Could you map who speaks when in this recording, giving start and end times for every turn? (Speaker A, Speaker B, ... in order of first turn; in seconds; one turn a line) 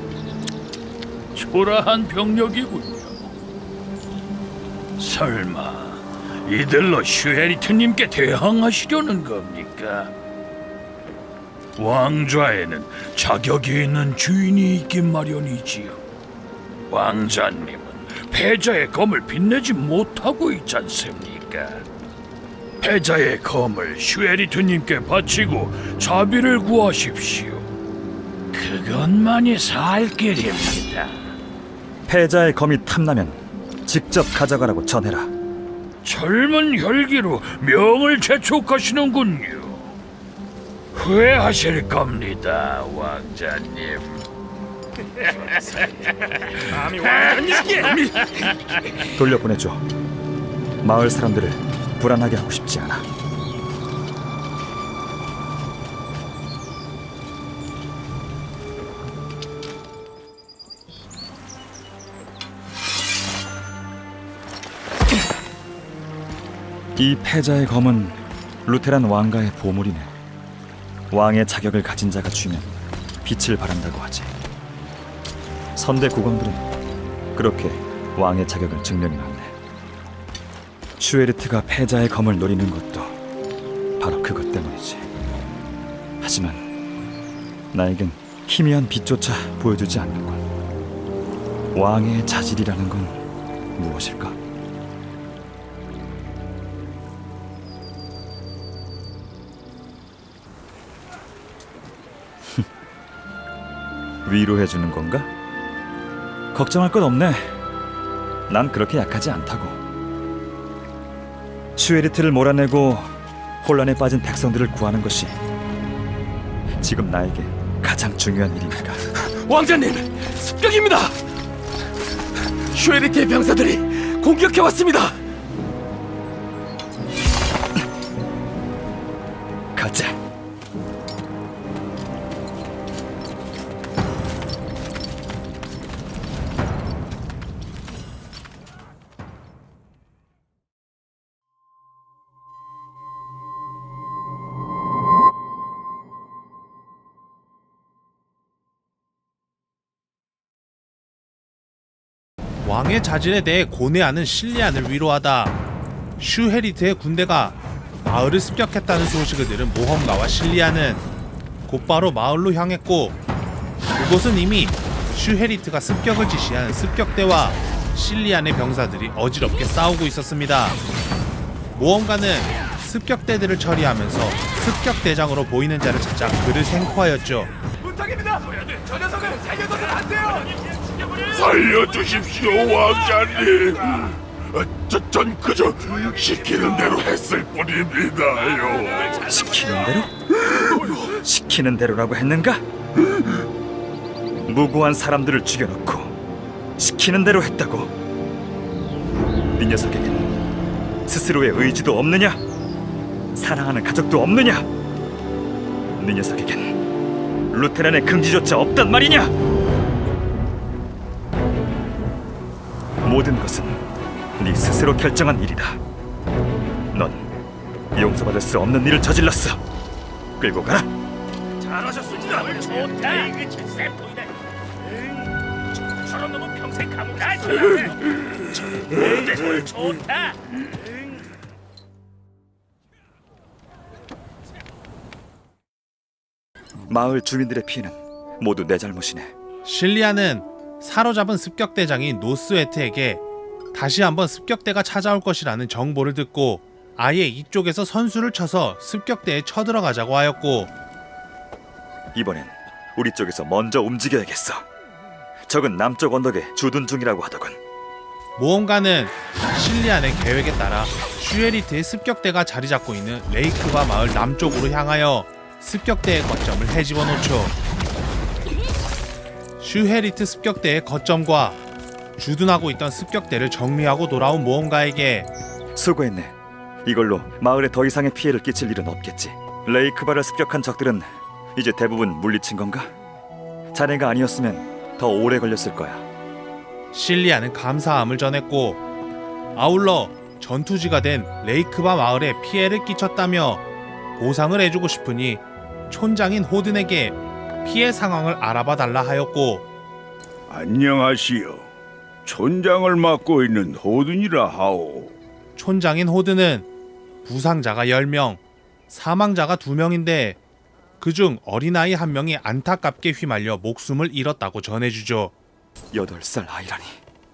Speaker A: 1.3-3.3
Speaker A: 5.0-10.1
Speaker A: 11.8-16.0
Speaker A: 16.9-21.9
Speaker A: 22.8-27.7
Speaker A: 28.5-31.4
Speaker B: 32.1-35.3
Speaker A: 36.0-40.0
Speaker A: 41.0-44.3
Speaker A: 45.2-49.1
Speaker B: 49.1-49.9
Speaker B: 50.8-53.1
Speaker B: 67.0-70.1
Speaker B: 71.1-72.7
Speaker B: 73.2-74.3
Speaker B: 75.8-76.7
Speaker B: 77.3-79.5
Speaker B: 81.0-83.2
Speaker B: 84.0-85.1
Speaker B: 86.2-86.7
Speaker B: 87.7-90.5
Speaker B: 91.8-93.2
Speaker B: 93.8-94.4
Speaker B: 104.2-105.3
Speaker B: 106.5-107.6
Speaker B: 108.5-109.8
Speaker B: 111.8-115.4
Speaker B: 116.8-119.1
Speaker C: 119.2-121.2
Speaker C: 122.7-125.2
Speaker B: 129.8-130.2
Speaker D: 152.6-155.5
Speaker D: 156.2-161.0
Speaker D: 161.7-163.2
Speaker D: 164.0-170.8
Speaker D: 171.8-177.5
Speaker E: 181.3-189.1
Speaker B: 189.1-192.6
Speaker B: 194.5-196.2
Speaker B: 196.8-197.9
Speaker B: 199.6-200.3
Speaker B: 201.1-202.4
Speaker B: 203.3-204.7
Speaker B: 206.0-206.8
Speaker B: 207.5-209.3
Speaker B: 213.0-213.8
Speaker B: 214.4-215.8
Speaker B: 216.9-217.3
Speaker B: 217.9-219.6
Speaker B: 220.4-220.9
Speaker A: 221.7-224.3
Speaker A: 226.1-228.0
Speaker A: 228.6-230.3
Speaker B: 236.9-239.3
Speaker D: 239.6-243.2
Speaker D: 243.7-250.7
Speaker B: 252.2-254.7
Speaker B: 255.5-257.6
Speaker D: 258.4-267.5
Speaker D: 269.6-271.6
Speaker D: 272.2-275.3
Speaker B: 275.8-282.9
Speaker B: 283.7-286.1
Speaker D: 286.9-288.8
Speaker D: 289.6-293.6
Speaker D: 294.2-299.7
Speaker E: 300.5-301.7
Speaker E: 302.2-305.2
Speaker D: 305.6-306.7
Speaker D: 307.2-310.4
Speaker D: 311.0-315.3
Speaker B: 315.9-317.0